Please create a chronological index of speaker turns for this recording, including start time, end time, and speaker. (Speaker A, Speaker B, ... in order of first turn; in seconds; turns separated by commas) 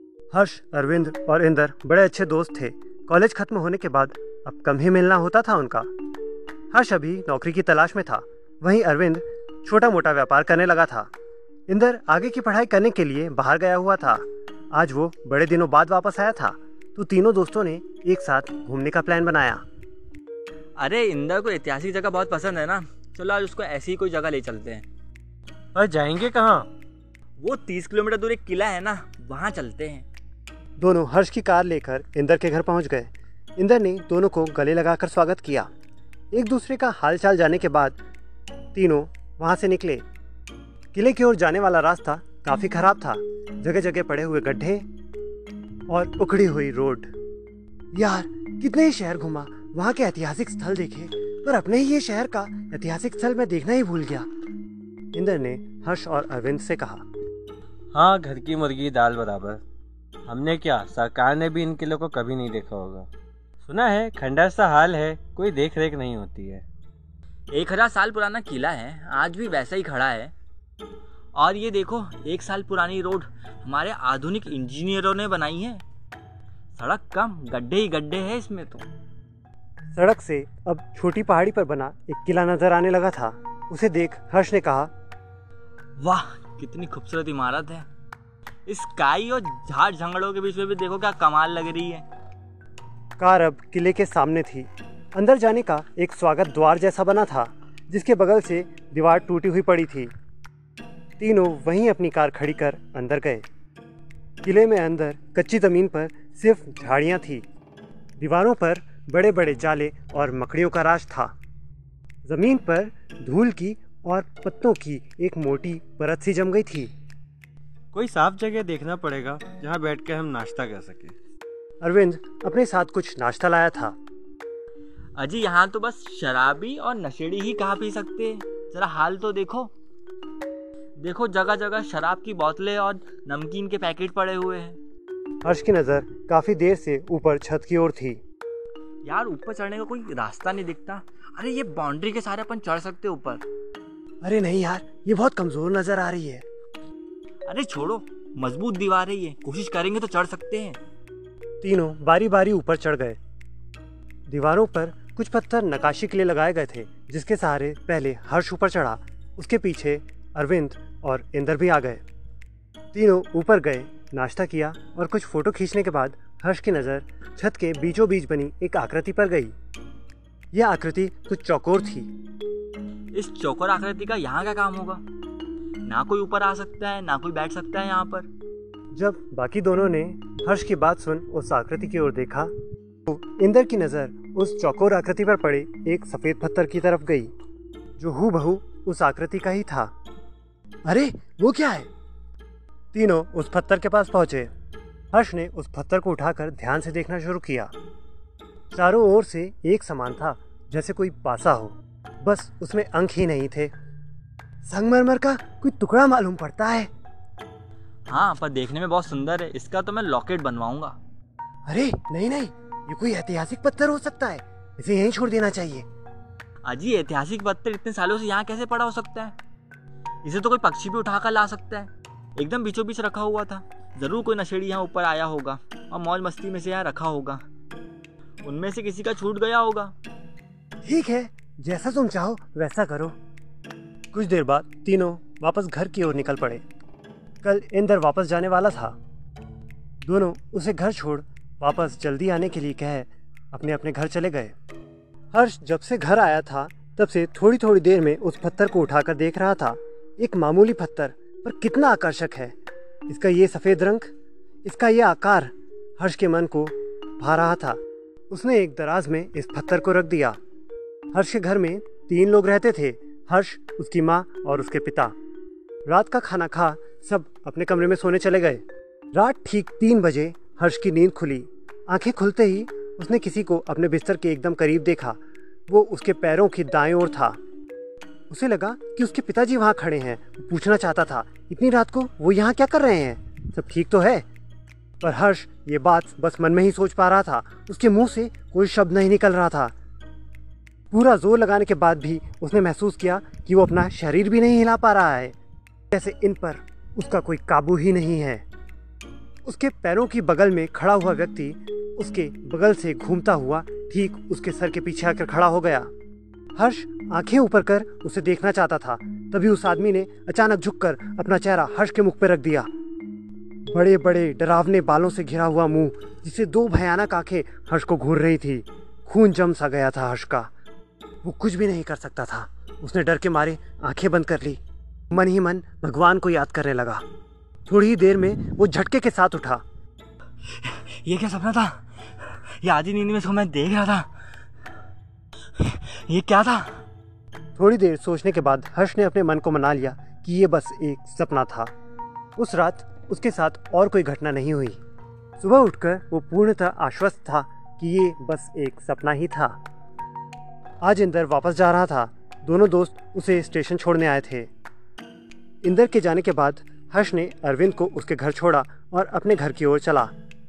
Speaker A: 0.3-5.9, Speaker A: 6.7-11.1, Speaker A: 11.7-19.6, Speaker B: 20.8-24.8, Speaker C: 25.7-26.7, Speaker B: 27.4-30.1, Speaker A: 30.8-35.7, Speaker A: 36.3-38.0, Speaker A: 38.7-40.0, Speaker A: 40.9-44.9, Speaker A: 45.9-47.1, Speaker A: 47.9-54.3, Speaker A: 55.1-57.0, Speaker C: 57.9-59.6, Speaker C: 60.2-63.1, Speaker C: 63.6-66.6, Speaker B: 67.5-70.3, Speaker B: 71.3-75.8, Speaker B: 76.7-78.9, Speaker A: 79.9-84.9, Speaker B: 86.0-87.8, Speaker B: 88.7-92.0, Speaker A: 93.2-100.1, Speaker A: 101.2-103.4, Speaker A: 104.4-107.5, Speaker A: 108.2-111.3, Speaker A: 112.2-116.9, Speaker C: 117.9-121.1, Speaker A: 121.8-124.0, Speaker B: 125.2-129.7, Speaker B: 131.0-134.8, Speaker A: 135.4-138.2, Speaker B: 139.0-143.4, Speaker A: 144.2-146.4, Speaker B: 147.4-150.8, Speaker A: 151.6-153.2, Speaker A: 154.3-162.0, Speaker A: 162.9-169.5, Speaker A: 170.5-172.1, Speaker B: 173.1-175.0, Speaker B: 175.8-178.3, Speaker A: 178.9-182.5, Speaker A: 183.1-187.3, Speaker A: 188.0-189.9, Speaker A: 190.8-191.9, Speaker A: 192.9-194.5, Speaker A: 195.1-197.7, Speaker A: 198.7-203.7, Speaker A: 204.6-206.9, Speaker B: 208.1-211.0, Speaker A: 211.7-215.8, Speaker B: 216.6-219.3, Speaker B: 220.2-227.4, Speaker B: 228.4-229.9, Speaker A: 230.8-233.2, Speaker A: 234.1-236.6, Speaker A: 237.4-238.9, Speaker A: 240.0-244.5, Speaker A: 245.3-252.5, Speaker A: 253.1-254.1, Speaker A: 254.6-257.8, Speaker A: 258.3-260.4, Speaker A: 261.1-265.1, Speaker A: 265.9-268.6, Speaker A: 269.1-277.4, Speaker A: 278.3-284.2, Speaker A: 285.0-289.7, Speaker A: 290.9-295.4, Speaker A: 295.9-298.4, Speaker A: 299.4-305.9, Speaker A: 306.6-312.7, Speaker A: 313.7-320.5, Speaker A: 321.2-324.6, Speaker A: 325.1-327.0, Speaker A: 327.7-329.6, Speaker B: 330.5-334.1, Speaker B: 335.6-336.8, Speaker A: 337.6-341.7, Speaker A: 342.4-344.8, Speaker A: 345.4-349.6, Speaker A: 350.8-354.5, Speaker A: 355.6-360.1